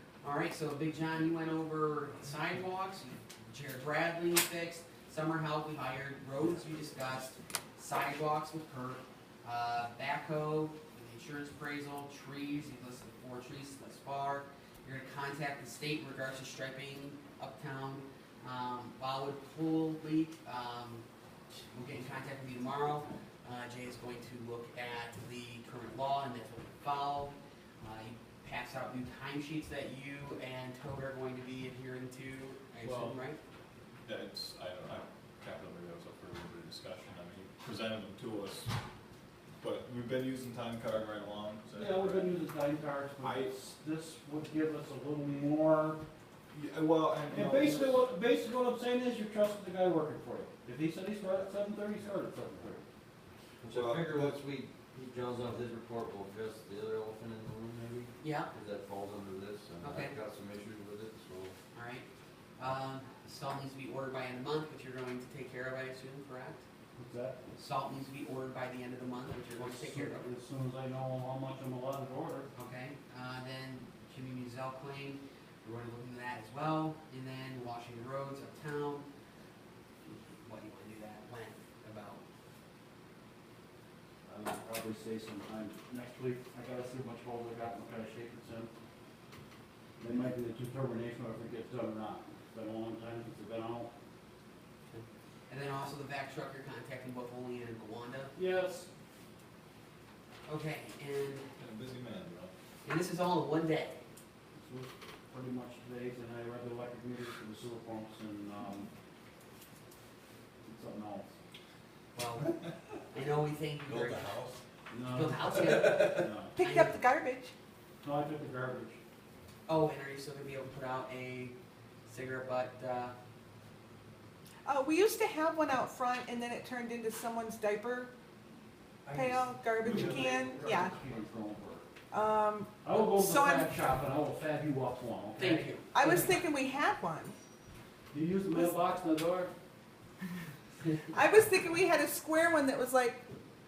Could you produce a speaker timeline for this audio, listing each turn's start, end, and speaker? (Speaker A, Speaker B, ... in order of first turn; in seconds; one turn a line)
Speaker A: 0.2-33.4
Speaker B: 32.8-33.2
Speaker C: 34.1-38.7
Speaker C: 39.6-42.4
Speaker B: 41.7-46.0
Speaker C: 43.2-43.5
Speaker C: 46.5-48.1
Speaker B: 47.3-52.8
Speaker D: 53.6-61.6
Speaker C: 53.7-54.4
Speaker A: 58.2-58.5
Speaker A: 59.8-60.2
Speaker A: 61.7-62.1
Speaker A: 62.6-66.6
Speaker B: 67.0-67.4
Speaker A: 67.6-70.3
Speaker B: 69.5-72.5
Speaker A: 72.5-79.1
Speaker A: 80.0-82.2
Speaker B: 84.3-88.7
Speaker B: 90.0-93.9
Speaker A: 94.9-98.3
Speaker B: 98.3-98.9
Speaker A: 100.5-101.5
Speaker C: 101.6-102.5
Speaker A: 102.8-104.0
Speaker B: 104.5-108.9
Speaker B: 110.6-111.3
Speaker A: 112.1-114.3
Speaker D: 113.9-114.6
Speaker B: 114.9-116.5
Speaker A: 115.1-117.0
Speaker E: 116.6-117.5
Speaker B: 118.0-119.0
Speaker A: 119.7-121.5
Speaker A: 122.1-123.2
Speaker E: 124.7-128.1
Speaker B: 129.0-131.9
Speaker E: 129.1-131.0
Speaker E: 132.1-133.8
Speaker B: 132.8-135.8
Speaker A: 135.4-136.4
Speaker E: 135.9-137.4
Speaker B: 138.1-139.5
Speaker E: 141.1-143.2